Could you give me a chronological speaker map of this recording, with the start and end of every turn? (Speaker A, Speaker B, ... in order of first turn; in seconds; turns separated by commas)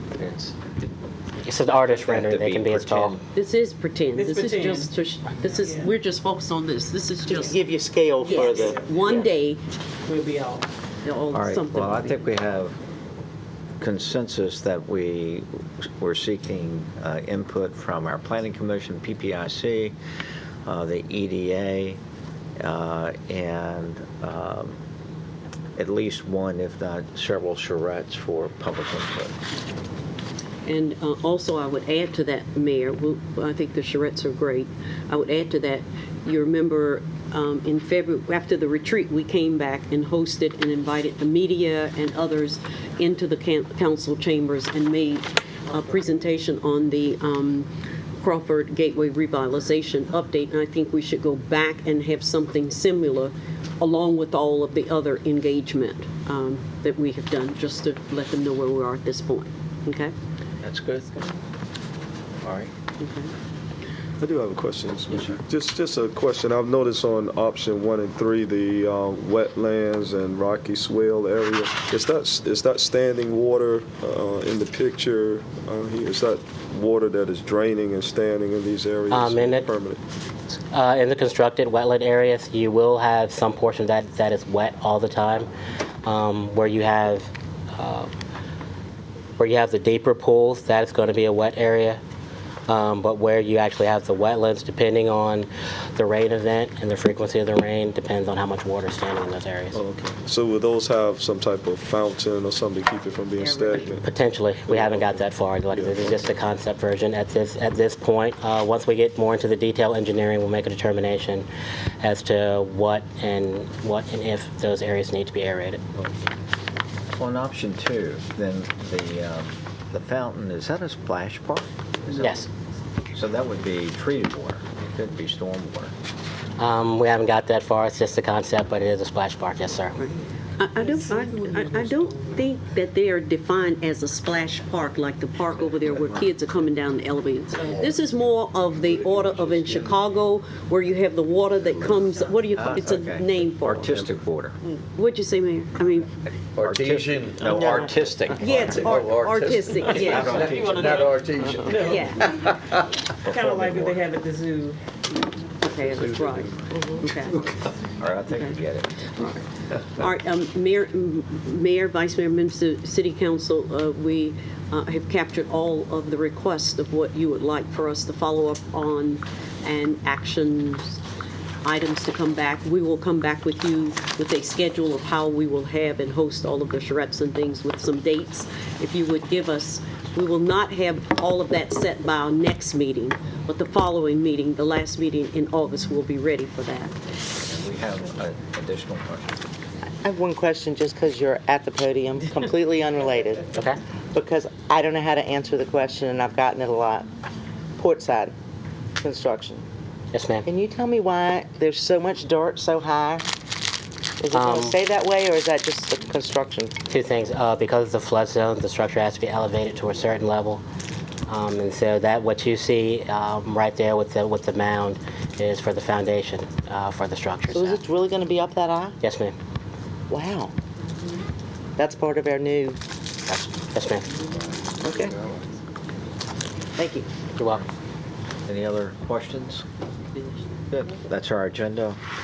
Speaker A: 0.1-0.5, Speaker B: 1.4-3.2, Speaker A: 1.8-3.2, Speaker C: 3.2-7.6, Speaker D: 4.2-4.9, Speaker D: 5.5-5.9, Speaker E: 7.3-9.2, Speaker C: 8.2-9.6, Speaker D: 8.7-9.1, Speaker D: 10.0-10.7, Speaker C: 11.0-12.2, Speaker A: 11.3-12.8, Speaker A: 13.8-19.9, Speaker A: 20.6-22.0, Speaker A: 22.6-24.8, Speaker A: 25.8-29.4, Speaker C: 30.6-47.7, Speaker C: 48.2-60.1, Speaker A: 60.6-61.3, Speaker A: 62.4-62.7, Speaker C: 63.0-63.3, Speaker F: 64.2-80.0, Speaker B: 79.1-79.7, Speaker B: 80.7-85.5, Speaker B: 86.0-88.1, Speaker B: 89.4-92.0, Speaker B: 92.7-99.8, Speaker F: 99.7-104.1, Speaker C: 103.4-104.0, Speaker B: 104.0-111.5, Speaker F: 104.7-106.3, Speaker B: 112.0-116.0, Speaker A: 117.1-122.4, Speaker B: 122.2-122.5, Speaker A: 123.1-125.9, Speaker B: 126.6-129.9, Speaker C: 130.0-144.0, Speaker D: 130.8-131.5, Speaker A: 142.5-144.6, Speaker C: 144.9-146.1, Speaker A: 146.2-148.8, Speaker G: 146.6-148.3, Speaker C: 148.4-151.0, Speaker G: 148.8-151.8, Speaker A: 149.9-151.1, Speaker D: 150.4-150.8, Speaker D: 151.5-152.2, Speaker C: 151.8-152.3, Speaker D: 153.2-154.8, Speaker A: 153.2-154.0, Speaker C: 155.6-157.5, Speaker A: 158.0-159.1, Speaker C: 158.3-158.6, Speaker C: 160.0-171.0, Speaker C: 171.6-186.9, Speaker A: 187.4-189.3, Speaker E: 190.0-193.4, Speaker E: 194.1-197.1, Speaker E: 197.8-198.3, Speaker E: 199.0-199.6, Speaker B: 200.1-200.4, Speaker E: 200.4-203.2, Speaker E: 204.2-206.7, Speaker B: 204.3-204.7, Speaker B: 206.9-210.6, Speaker B: 211.3-217.8, Speaker E: 217.5-218.9, Speaker B: 219.0-219.3, Speaker E: 220.1-220.5, Speaker E: 221.8-222.8, Speaker B: 223.3-224.1, Speaker E: 224.8-225.2, Speaker E: 226.8-227.1, Speaker B: 227.4-227.6, Speaker A: 228.4-229.6, Speaker A: 230.7-232.0